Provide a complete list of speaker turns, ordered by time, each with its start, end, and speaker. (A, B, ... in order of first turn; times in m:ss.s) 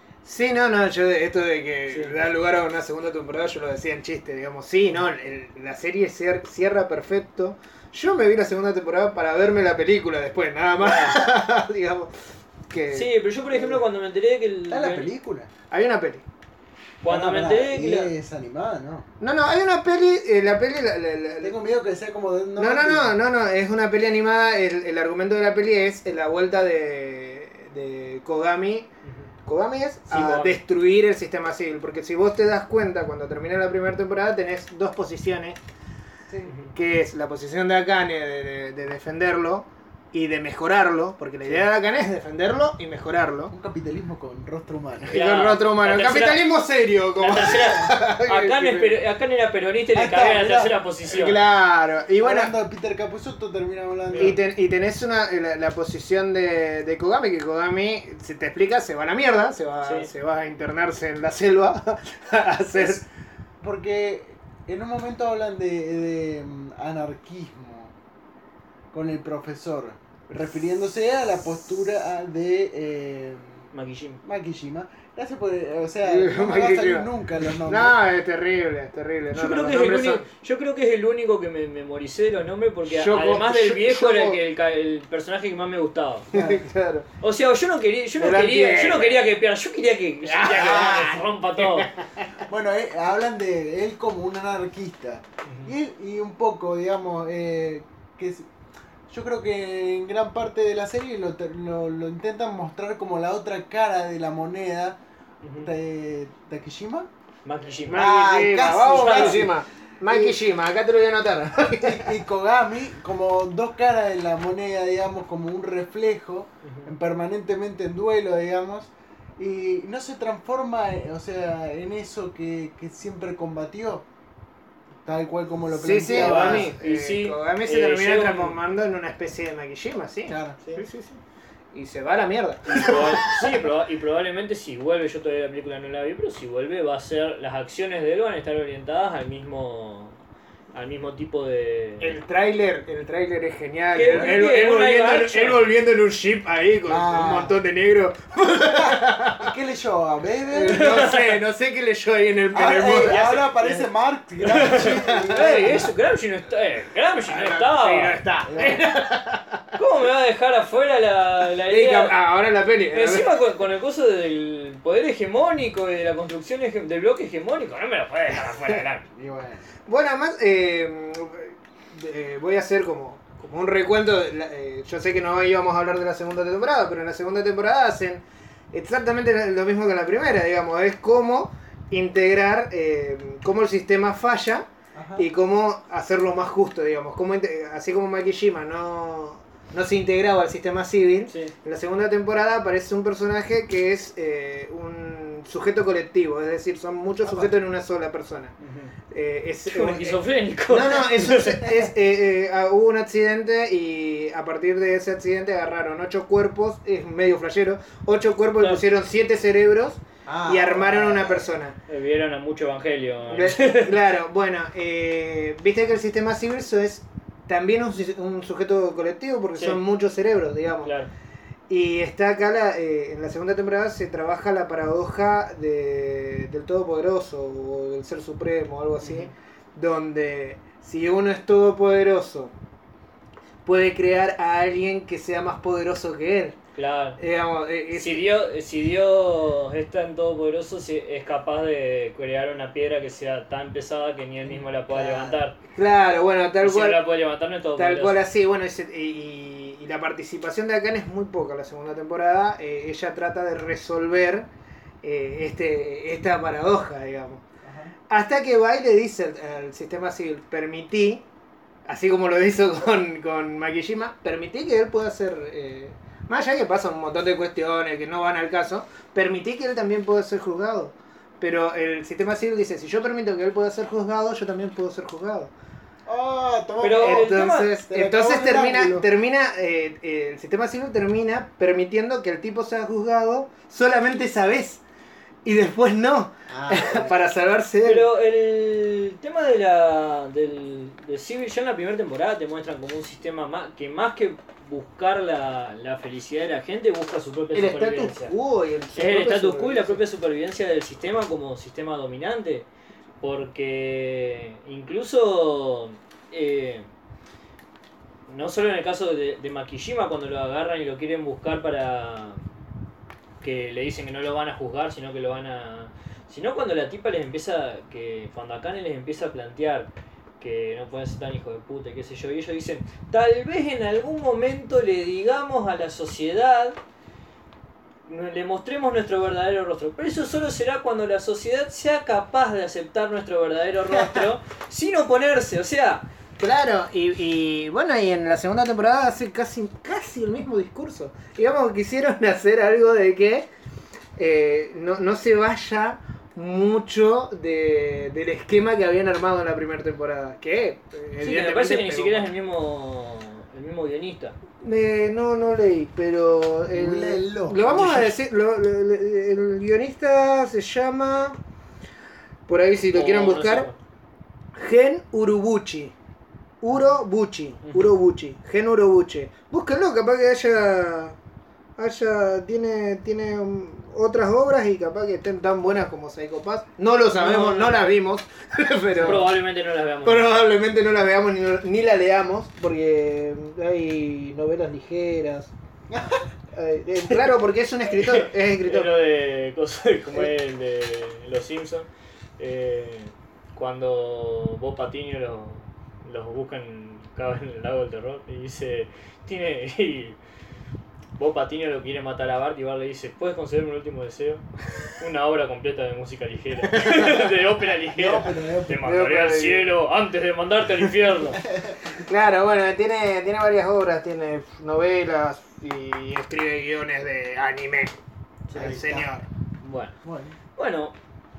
0:00.2-0:13.1 A
0:10.8-0:11.2 B
0:12.9-0:15.1 B
0:13.5-0:13.8 C
0:14.7-0:15.5 C
0:15.7-0:16.2 A
0:17.0-0:18.1 B
0:17.1-0:19.1 C
0:19.2-0:21.6 A
0:21.4-0:23.2 C
0:22.6-0:28.9 A
0:29.4-0:35.6 A
0:30.1-0:30.6 B
0:36.3-0:36.6 C
0:36.5-0:36.7 B
0:36.7-0:43.5 A
0:43.5-0:45.2 C
0:45.1-0:46.4 B
0:45.1-0:49.0 A
0:47.2-0:51.4 B
0:47.4-0:47.9 C
0:49.9-0:50.8 C
0:51.1-0:52.5 A
0:52.2-0:54.4 C
0:54.1-0:54.4 B
0:54.2-1:03.0 A
0:59.8-1:00.1 B
1:03.6-1:07.9 C
1:08.9-1:13.7 C
1:13.7-1:14.2 B
1:14.2-1:18.0 C
1:16.0-1:17.1 A
1:17.6-1:20.3 A
1:19.3-1:26.3 B
1:22.8-1:24.4 A
1:26.3-1:27.1 A
1:26.3-1:26.7 C
1:27.2-1:31.9 B
1:28.2-1:29.2 A
1:30.2-1:32.3 A
1:30.5-1:31.2 C
1:32.4-1:38.5 C
1:35.5-1:35.7 B
1:39.1-1:45.0 C
1:45.4-1:45.7 B
1:45.6-1:47.1 C
1:47.4-1:48.1 B
1:47.9-1:52.1 A
1:47.9-1:50.4 C
1:48.9-1:49.4 B
1:51.6-2:04.1 C
1:56.6-1:56.9 B
2:05.0-2:06.7 C
2:05.7-2:11.2 A
2:06.1-2:08.6 B
2:10.3-2:10.6 C
2:11.7-2:13.3 A
2:12.7-2:20.2 B
2:20.7-2:22.2 B
2:22.0-2:29.5 A
2:23.9-2:25.7 B
2:24.1-2:24.4 C
2:26.9-2:27.6 C
2:28.7-2:31.1 C
2:30.5-2:33.3 A
2:30.7-2:31.3 B
2:32.5-2:35.9 C
2:33.0-2:33.8 B
2:34.5-2:38.2 B
2:34.5-2:35.7 A
2:37.3-2:39.6 A
2:38.5-2:38.9 C
2:39.8-2:42.2 B
2:41.7-2:43.4 A
2:42.9-2:49.1 B
2:49.1-2:49.7 C
2:49.9-3:04.7 A
3:04.9-3:05.3 C
3:05.2-3:18.5 A
3:17.3-3:17.5 C
3:18.6-3:18.9 B
3:19.1-3:31.8 A
3:19.7-3:21.7 B
3:30.3-3:31.5 C
3:31.9-3:34.0 B
3:33.3-3:41.0 A
3:40.8-3:41.1 B
3:41.7-3:52.5 A
3:49.0-3:49.3 B
3:53.7-3:56.6 A
3:56.8-3:57.2 B
3:57.2-3:58.2 A
3:57.9-4:05.6 B
4:04.9-4:07.0 A
4:06.6-4:08.2 B
4:07.8-4:14.5 A
4:15.0-4:17.4 A
4:17.6-4:17.9 C
4:18.1-4:21.2 A
4:21.9-4:35.5 A
4:36.1-4:39.1 C
4:36.8-4:37.7 B
4:37.0-4:44.8 A
4:45.4-4:48.1 A
4:46.5-4:47.2 C
4:47.8-4:58.3 B
4:57.5-5:00.0 A
4:59.0-5:02.7 B
5:03.2-5:06.9 B
5:08.3-5:12.4 B
5:13.4-5:26.8 B
5:28.1-5:36.1 B
5:33.9-5:34.3 C
5:36.4-5:43.5 A
5:44.2-5:52.3 A
5:51.2-5:54.4 B
5:54.6-6:01.4 A
5:56.7-5:58.1 C
6:02.5-6:03.7 A
6:02.9-6:03.8 B
6:04.6-6:05.9 A
6:06.6-6:11.2 A
6:11.8-6:19.3 A
6:17.2-6:17.8 B
6:19.0-6:20.4 B
6:20.0-6:25.5 A
6:25.9-6:26.3 C
6:26.5-6:28.9 A
6:28.0-6:40.2 B
6:41.2-6:51.4 B
6:46.7-6:47.3 A
6:47.9-6:48.9 C
6:48.8-6:49.7 A
6:51.4-6:51.9 C
6:51.9-6:57.9 A
6:58.5-6:58.7 B
6:58.5-6:59.1 C
6:58.5-6:59.2 A
6:59.6-7:00.0 B
7:00.0-7:00.4 C
7:00.6-7:01.0 B